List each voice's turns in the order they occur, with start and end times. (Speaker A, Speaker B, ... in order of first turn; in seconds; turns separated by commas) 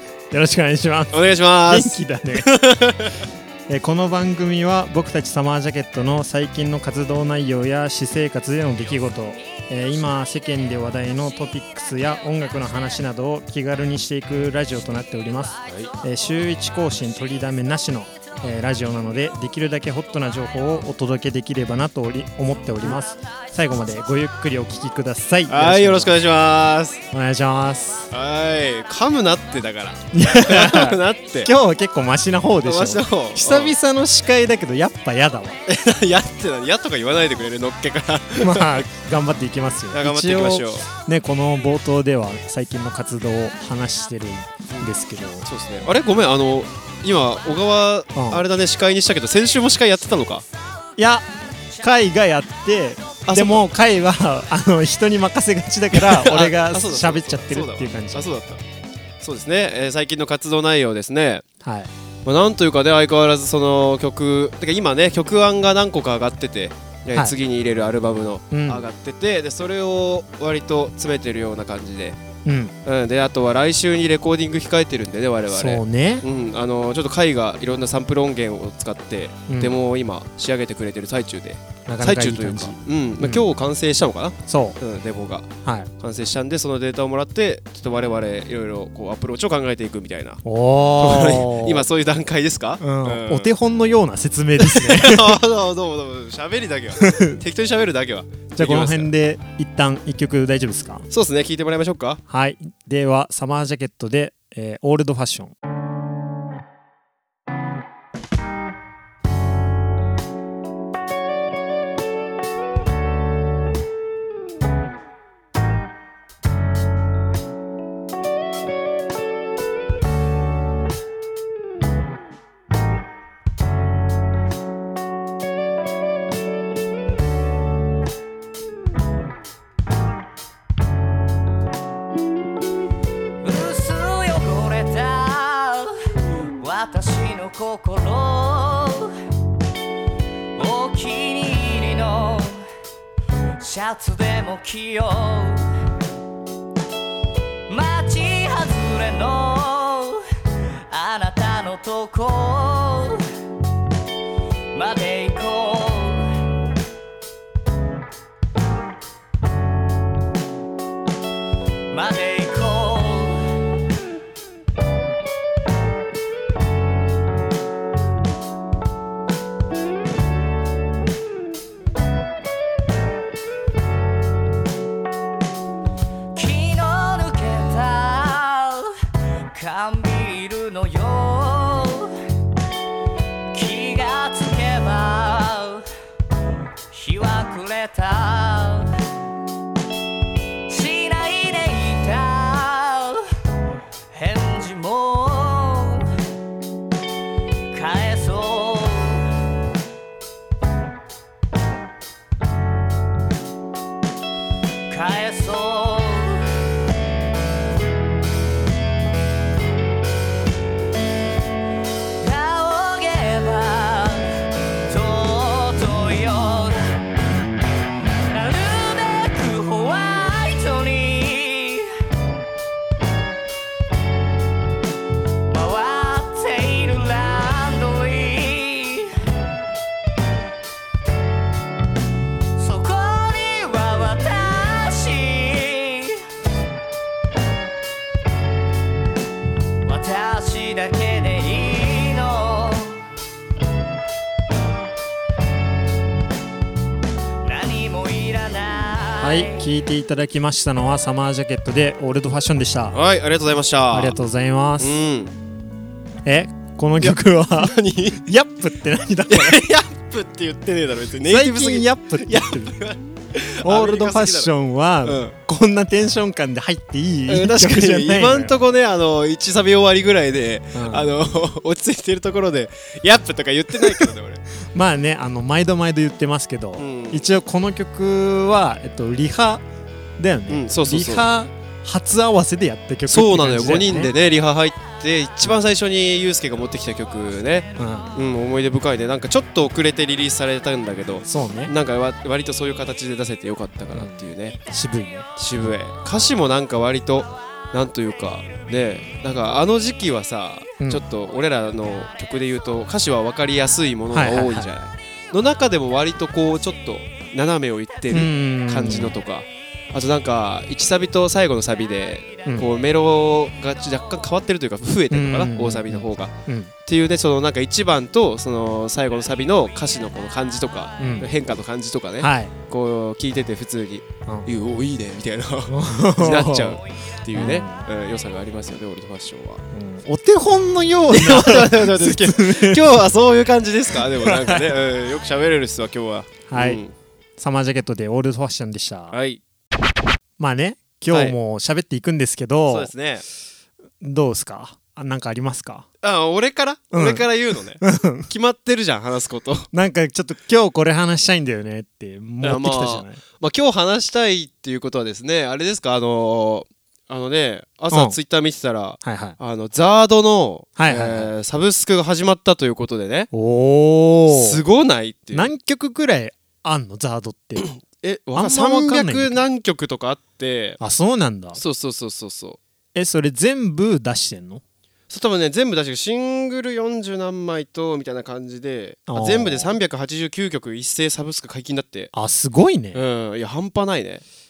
Speaker A: 0.3-2.5, Speaker B: 1.1-3.2, Speaker A: 3.7-26.2, Speaker B: 25.5-27.0, Speaker A: 27.1-28.1, Speaker B: 28.1-31.5, Speaker A: 30.1-35.6, Speaker B: 32.6-33.8, Speaker B: 35.7-38.9, Speaker A: 38.4-45.5, Speaker B: 39.9-40.9, Speaker B: 45.5-50.5, Speaker A: 48.1-48.4, Speaker A: 51.0-58.4, Speaker B: 53.3-53.7, Speaker B: 55.9-58.6, Speaker B: 59.2-61.4, Speaker A: 61.6-61.9, Speaker B: 62.2-72.2, Speaker A: 68.5-68.8, Speaker A: 72.5-72.7, Speaker B: 72.8-90.4, Speaker A: 75.5-76.2, Speaker A: 79.5-79.8, Speaker A: 81.9-83.4, Speaker A: 84.5-84.8, Speaker A: 85.6-85.9, Speaker A: 90.4-91.9, Speaker B: 91.0-93.5, Speaker A: 92.8-95.4, Speaker B: 94.6-99.1, Speaker A: 97.0-97.4, Speaker A: 98.6-101.1, Speaker B: 101.1-102.2, Speaker A: 102.3-105.5, Speaker C: 133.4-139.1, Speaker C: 140.6-142.7, Speaker C: 143.6-145.7, Speaker C: 147.7-150.2, Speaker C: 150.9-153.2, Speaker C: 154.7-156.3, Speaker C: 161.9-163.4, Speaker C: 176.3-179.0, Speaker C: 179.5-182.1, Speaker C: 183.5-185.9, Speaker C: 186.9-188.9, Speaker C: 190.7-193.2, Speaker C: 194.1-196.1, Speaker C: 197.7-199.3, Speaker C: 204.9-206.5, Speaker C: 212.2-214.3, Speaker C: 214.9-216.8, Speaker C: 218.3-221.9, Speaker C: 225.5-229.1, Speaker C: 232.6-236.2, Speaker C: 239.8-243.0, Speaker C: 247.4-249.6, Speaker A: 249.2-253.0, Speaker B: 252.9-254.2, Speaker A: 253.9-255.0, Speaker B: 254.8-255.3, Speaker A: 256.2-259.6, Speaker B: 257.0-258.3, Speaker B: 259.3-264.5, Speaker A: 261.3-262.8, Speaker A: 263.6-268.5, Speaker B: 265.1-265.4, Speaker B: 267.3-274.4, Speaker A: 270.8-271.1, Speaker A: 274.7-279.6, Speaker B: 276.8-277.3, Speaker A: 280.2-284.1, Speaker B: 280.5-281.3, Speaker B: 283.1-294.6, Speaker A: 287.8-288.1, Speaker A: 291.3-291.7, Speaker A: 293.9-295.3, Speaker B: 295.4-316.3, Speaker A: 304.1-304.7, Speaker A: 308.1-309.2, Speaker A: 315.1-316.7, Speaker B: 316.9-329.6, Speaker A: 321.0-321.3, Speaker A: 322.2-322.5, Speaker A: 325.7-326.8, Speaker A: 327.3-327.8, Speaker A: 329.7-332.9, Speaker B: 331.1-336.9, Speaker A: 334.0-334.8, Speaker A: 336.5-336.8, Speaker A: 337.4-339.2, Speaker B: 339.1-339.4, Speaker A: 340.4-342.9, Speaker B: 341.1-341.4, Speaker B: 342.7-343.2, Speaker A: 344.0-345.9, Speaker B: 346.0-349.7, Speaker A: 346.9-347.2, Speaker A: 347.8-348.3, Speaker A: 349.7-353.2, Speaker B: 352.4-363.3, Speaker A: 357.9-358.2, Speaker A: 359.0-359.4, Speaker A: 360.8-361.3, Speaker A: 363.3-364.6, Speaker B: 364.3-365.5, Speaker A: 365.3-367.7, Speaker B: 367.8-370.8, Speaker A: 368.3-369.4, Speaker A: 370.8-371.6, Speaker B: 371.6-372.6, Speaker A: 372.9-374.6, Speaker B: 375.1-382.1, Speaker A: 379.1-379.8, Speaker A: 382.1-383.0, Speaker B: 382.9-384.2